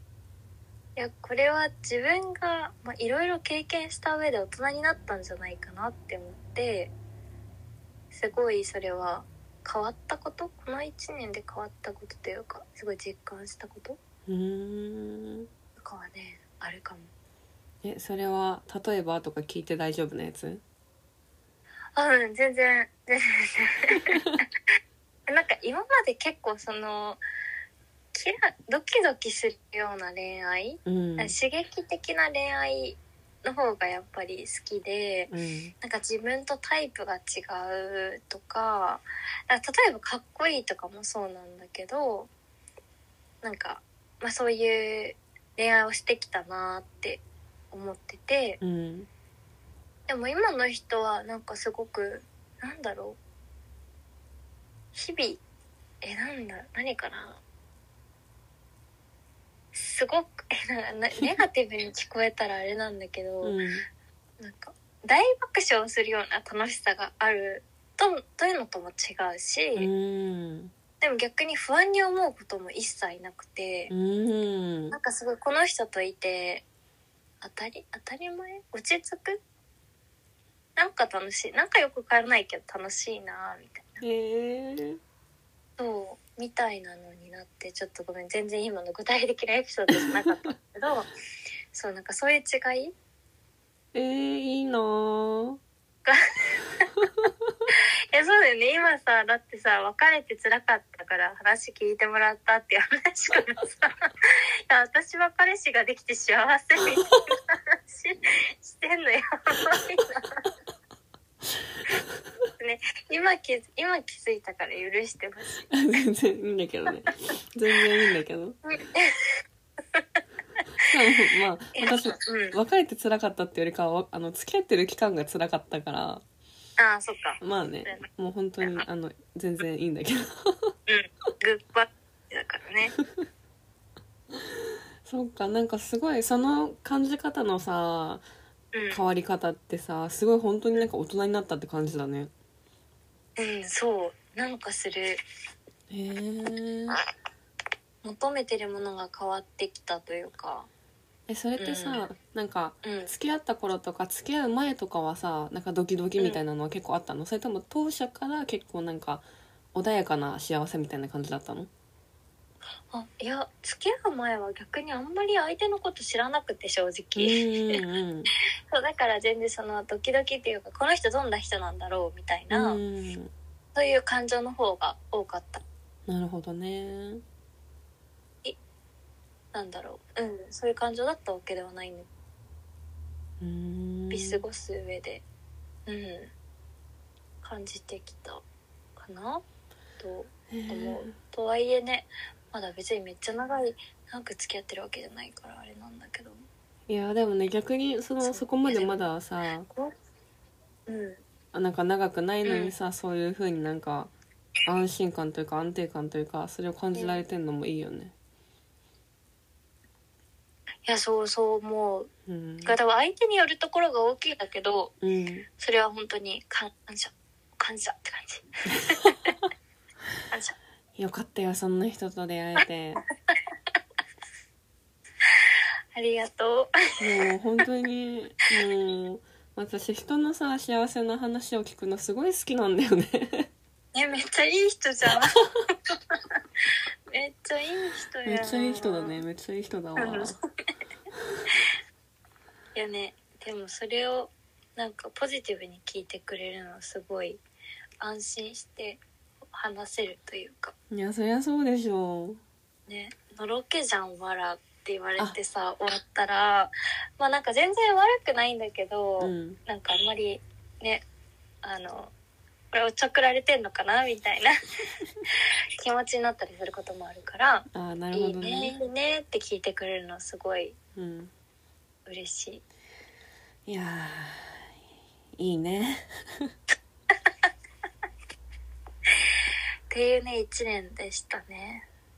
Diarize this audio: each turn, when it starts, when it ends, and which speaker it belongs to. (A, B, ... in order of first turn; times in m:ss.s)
0:01.0-0:06.9 A
0:08.1-0:14.0 A
0:14.3-0:15.5 B
0:15.8-0:17.1 A
0:17.8-0:20.6 B
0:22.0-0:24.4 A
0:24.1-0:24.4 B
0:25.3-0:27.2 A
0:28.1-0:42.3 A
0:30.8-0:31.3 B
0:35.3-0:35.7 B
0:43.4-0:48.6 A
0:48.6-0:49.1 B
0:50.1-0:53.2 A
0:54.9-0:55.4 A
0:56.0-0:57.4 A
0:59.7-1:03.6 A
1:03.4-1:03.8 B
1:04.4-1:09.9 A
1:09.8-1:10.7 B
1:11.0-1:13.9 A
1:13.9-1:15.0 B
1:14.9-1:16.6 A
1:17.4-1:19.4 A
1:20.8-1:24.0 A
1:24.0-1:25.0 B
1:25.8-1:31.1 A
1:29.9-1:30.5 B
1:31.7-1:32.9 A
1:33.9-1:35.6 B
1:36.0-1:36.9 A
1:37.0-1:37.5 B
1:37.7-1:50.4 A
1:52.6-1:55.7 A
1:55.7-1:58.6 B
1:58.7-1:59.4 A
1:59.9-2:00.2 A
2:00.9-2:06.2 B
2:01.8-2:02.6 A
2:06.8-2:08.0 A
2:07.4-2:10.7 B
2:10.9-2:12.9 A
2:14.3-2:18.2 B
2:18.7-2:19.0 A
2:18.9-2:22.3 B
2:23.4-2:25.2 A
2:25.9-2:27.0 B
2:28.0-2:30.7 A
2:31.3-2:41.7 B
2:31.6-2:32.0 A
2:32.8-2:33.1 A
2:42.9-2:47.8 A
2:47.2-2:48.3 B
2:48.7-2:52.8 A
2:52.5-2:53.3 B
2:53.7-2:55.6 A
2:56.1-2:57.2 B
2:59.5-3:02.1 A
3:03.4-3:04.4 B
3:04.1-3:05.2 A
3:05.9-3:06.3 A
3:07.4-3:08.4 A
3:09.0-3:09.4 A
3:10.0-3:16.4 A
3:10.5-3:11.1 B
3:16.9-3:19.7 B
3:18.2-3:19.0 A
3:20.9-3:21.2 A
3:21.5-3:24.1 B
3:22.4-3:22.7 A
3:24.6-3:28.1 B
3:26.9-3:27.2 A
3:30.8-3:32.1 A
3:32.3-3:32.7 B
3:32.6-3:34.9 A
3:35.0-3:35.4 B
3:35.6-3:39.3 A
3:40.3-3:40.6 A
3:41.0-3:43.0 B
3:45.9-3:47.3 A
3:47.0-3:53.5 B
3:53.9-3:56.2 A
3:57.1-3:59.2 A
3:58.2-4:00.3 B
4:00.0-4:00.3 A
4:02.7-4:07.4 A
4:08.0-4:10.7 A
4:10.9-4:12.4 B
4:12.9-4:21.0 A
4:19.2-4:19.6 B
4:21.6-4:22.1 A
4:22.7-4:24.5 A
4:25.3-4:30.8 A
4:27.7-4:28.8 B
4:30.9-4:31.3 B
4:32.0-4:32.6 A
4:33.6-4:34.7 B
4:35.4-4:36.5 B
4:39.9-4:41.9 A